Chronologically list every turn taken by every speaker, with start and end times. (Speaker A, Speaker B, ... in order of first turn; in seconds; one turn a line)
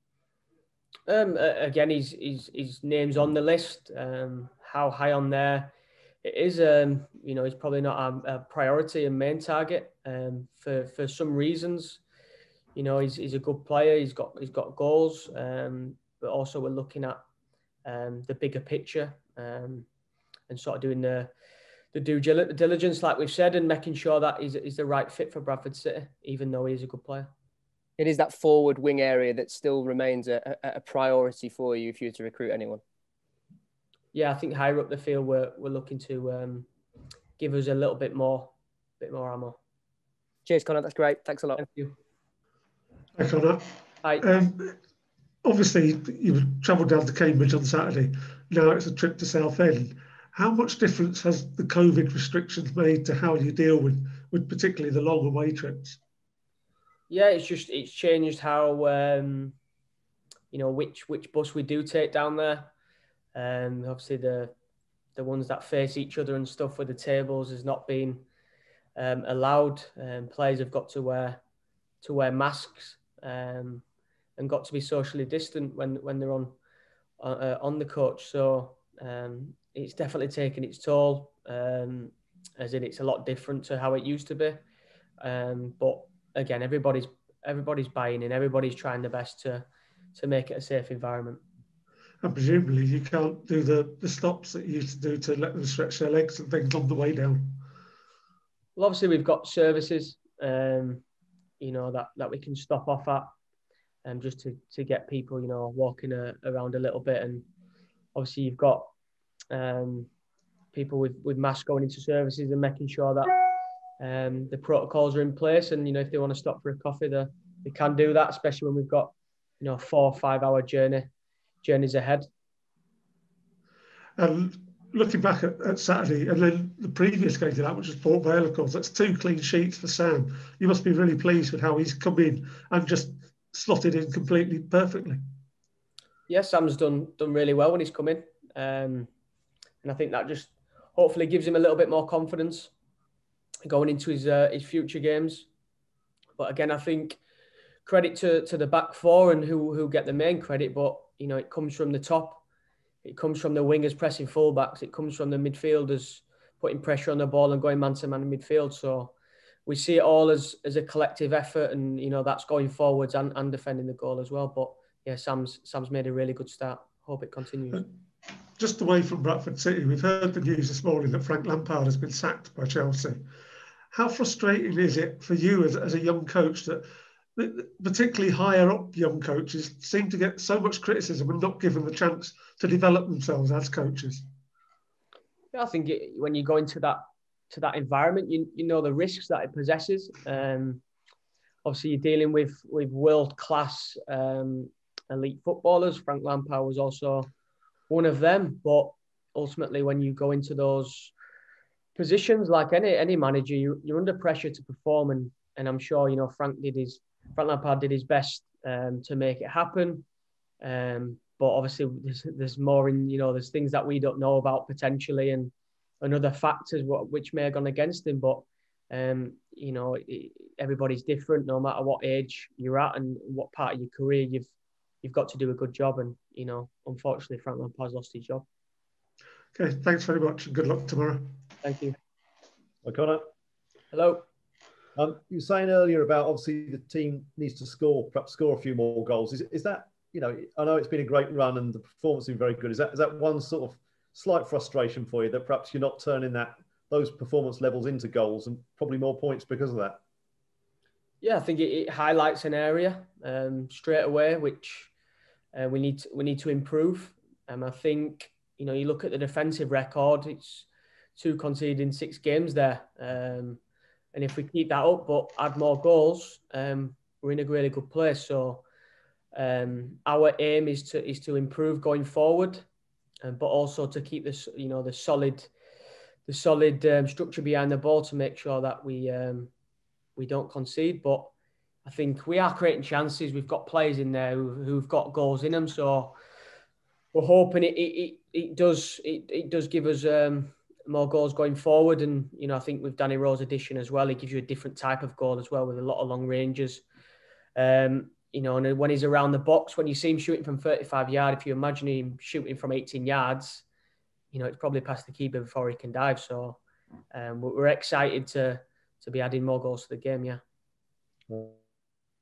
Speaker A: 1.1-12.0
Speaker A: 12.7-17.2
Speaker A: 17.8-19.9
Speaker A: 20.5-21.3
Speaker A: 21.9-27.3
Speaker B: 28.0-32.8
Speaker A: 34.1-36.7
Speaker A: 37.4-39.6
Speaker B: 40.5-41.6
Speaker A: 41.6-42.0
Speaker C: 43.1-43.6
Speaker C: 44.2-44.8
Speaker C: 45.4-56.0
Speaker A: 57.1-59.5
Speaker A: 60.5-62.7
Speaker A: 63.3-64.5
Speaker A: 65.2-68.2
Speaker A: 69.0-71.4
Speaker A: 72.0-73.8
Speaker A: 74.4-76.5
Speaker A: 77.2-84.6
Speaker A: 85.2-91.4
Speaker C: 92.2-97.6
Speaker A: 98.8-101.0
Speaker A: 101.6-103.3
Speaker A: 104.0-107.4
Speaker A: 108.1-108.9
Speaker A: 109.5-110.1
Speaker A: 110.7-113.4
Speaker A: 114.0-121.1
Speaker A: 121.6-122.3
Speaker C: 124.2-135.2
Speaker A: 136.3-139.1
Speaker A: 139.8-142.7
Speaker A: 143.6-145.5
Speaker A: 146.4-147.2
Speaker A: 147.8-152.4
Speaker A: 153.0-159.1
Speaker A: 159.7-167.8
Speaker C: 168.6-173.2
Speaker C: 173.9-184.2
Speaker A: 185.5-190.8
Speaker A: 191.6-197.3
Speaker A: 197.9-201.1
Speaker A: 201.9-210.1
Speaker A: 210.6-224.5
Speaker A: 225.0-228.4
Speaker C: 229.5-231.4
Speaker A: 231.6-231.9
Speaker D: 232.8-233.2
Speaker A: 233.9-234.2
Speaker D: 234.9-250.0
Speaker A: 251.2-254.9
Speaker A: 255.5-263.6
Speaker A: 264.1-268.6
Speaker A: 269.3-272.6
Speaker A: 273.2-275.5
Speaker A: 276.2-279.5
Speaker A: 280.2-281.3
Speaker A: 281.8-286.1
Speaker A: 287.1-296.8
Speaker A: 297.6-303.6
Speaker A: 304.3-306.6
Speaker A: 307.1-310.4
Speaker D: 311.3-311.6